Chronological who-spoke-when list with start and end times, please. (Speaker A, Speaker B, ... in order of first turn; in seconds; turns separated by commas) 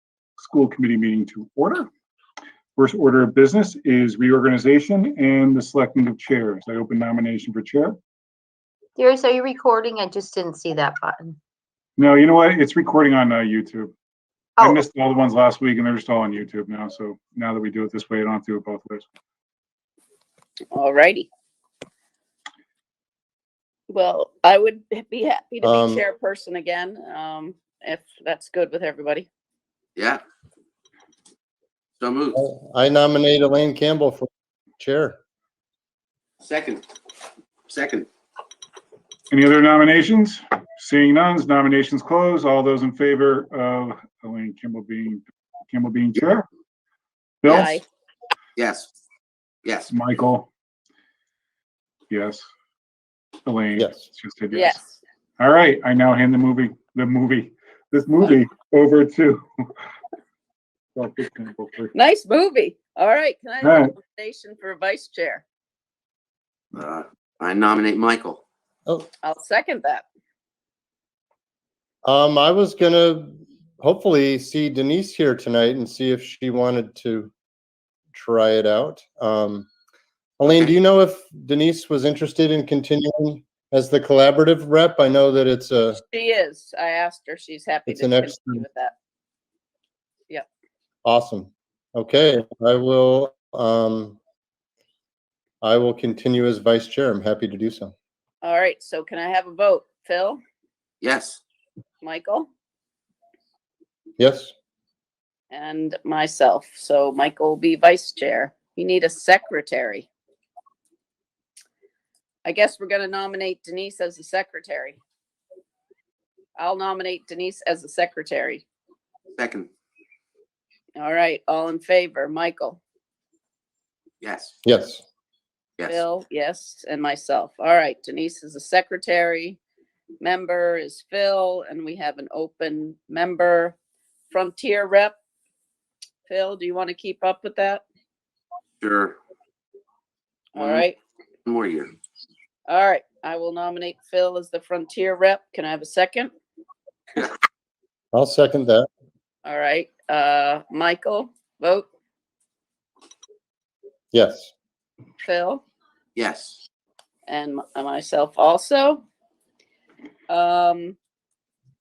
Speaker A: 0.4-1.9, Speaker A: 2.8-8.0, Speaker B: 9.0-11.4, Speaker A: 12.0-13.9, Speaker A: 14.6-19.1, Speaker C: 20.7-21.3, Speaker C: 23.9-29.3, Speaker D: 25.6-26.0, Speaker E: 30.0-30.2, Speaker E: 32.0-32.4, Speaker D: 32.3-35.2, Speaker E: 36.4-36.8, Speaker E: 37.7-38.1, Speaker A: 39.3-46.5, Speaker A: 47.4-47.8, Speaker C: 47.5-47.8, Speaker E: 48.6-48.9, Speaker E: 49.6-49.9, Speaker A: 49.9-50.5, Speaker A: 52.1-52.5, Speaker A: 53.5-54.8, Speaker D: 53.8-54.0, Speaker C: 54.5-55.0, Speaker A: 55.4-59.4, Speaker A: 60.9-61.9, Speaker C: 61.9-65.4, Speaker A: 63.6-63.9, Speaker E: 66.7-68.4, Speaker C: 69.2-70.0, Speaker D: 72.0-77.3, Speaker D: 78.1-79.7, Speaker D: 80.4-86.0, Speaker C: 86.0-88.9, Speaker D: 87.9-88.6, Speaker D: 91.0-94.2, Speaker D: 95.6-97.9, Speaker C: 98.4-100.4, Speaker E: 101.0-101.4, Speaker C: 102.0-102.5, Speaker D: 104.2-104.5, Speaker C: 105.5-110.1, Speaker C: 112.4-115.0, Speaker C: 116.6-118.6, Speaker E: 119.4-119.7, Speaker C: 121.0-122.8, Speaker E: 124.2-124.5, Speaker D: 124.7-125.0, Speaker C: 125.8-129.6, Speaker C: 130.2-133.8, Speaker C: 134.3-135.1, Speaker C: 136.2-137.8, Speaker E: 138.8-139.2, Speaker C: 140.5-141.0, Speaker E: 140.6-140.9, Speaker E: 141.4-141.9, Speaker C: 142.7-146.3, Speaker D: 148.1-148.9, Speaker C: 149.4-151.9, Speaker D: 154.1-154.5, Speaker C: 155.2-155.6, Speaker E: 156.2-156.6, Speaker C: 157.3-159.0, Speaker C: 160.3-161.0